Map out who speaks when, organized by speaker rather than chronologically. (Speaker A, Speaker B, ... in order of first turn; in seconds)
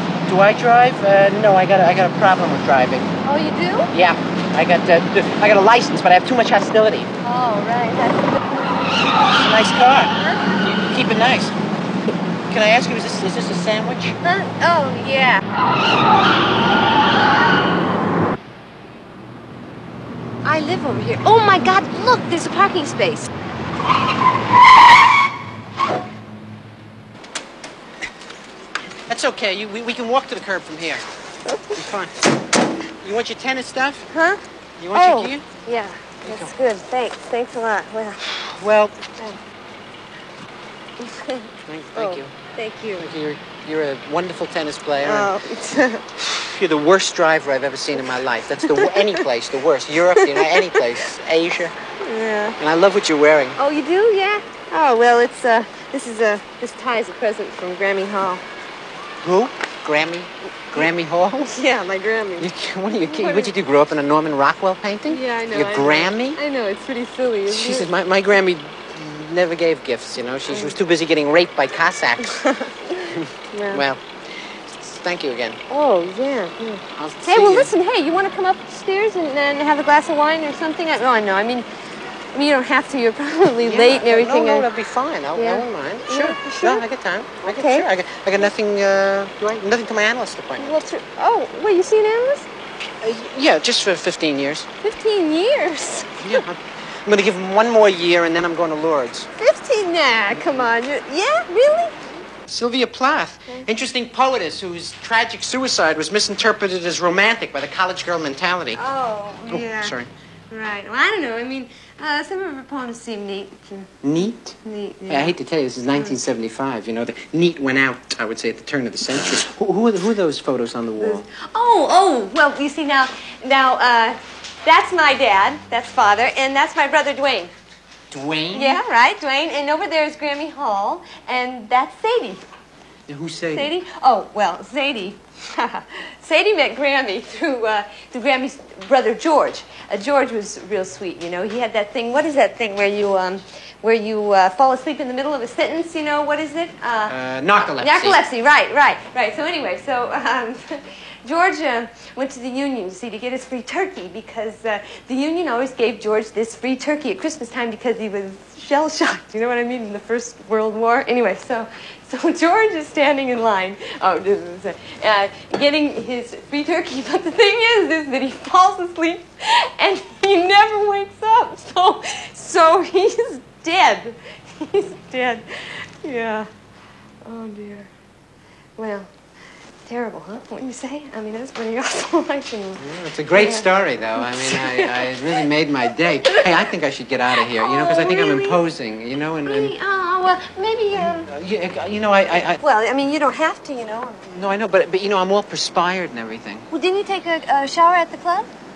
Speaker A: 0.3-3.1, 3.9-7.1, 9.3-10.2, 10.7-11.6, 12.5-14.2, 29.1-31.0, 31.7-32.1, 33.0-34.1, 34.8-35.5, 36.2-36.5, 38.6-39.0, 41.6-42.3, 43.0-45.3, 46.2-51.7, 52.6-53.6, 59.2-61.5, 62.4-66.4, 67.5-72.3, 73.1-75.6, 76.9-77.7, 83.6-90.8, 93.0-94.7, 96.2-99.3, 100.4-100.6, 102.5-108.8, 109.5-110.1, 114.0-114.5, 115.1-121.2, 128.1-128.8, 133.1-133.7, 147.1-148.2, 182.8-189.8, 190.9-192.6, 194.3-196.7
Speaker B: 3.2-3.9, 7.2-8.4, 10.2-10.4, 14.2-15.4, 20.4-23.3, 31.5-31.8, 34.1-34.4, 34.9-38.2, 41.0-43.1, 45.0-46.0, 52.0-52.5, 53.6-58.4, 61.5-62.5, 63.1-63.5, 65.1-67.9, 70.5-70.8, 72.2-72.9, 73.5-73.8, 75.7-81.7, 82.3-84.7, 85.3-86.8, 87.4-87.9, 90.6-92.5, 94.8-96.4, 99.4-102.1, 108.7-110.0, 110.5-113.9, 114.6-115.3, 121.0-127.5, 128.5-132.4, 133.5-147.1, 147.8-176.5, 177.2-177.9, 178.8-179.1, 179.8-185.0, 187.5-188.6, 189.4-191.3, 192.6-194.3, 196.7-198.5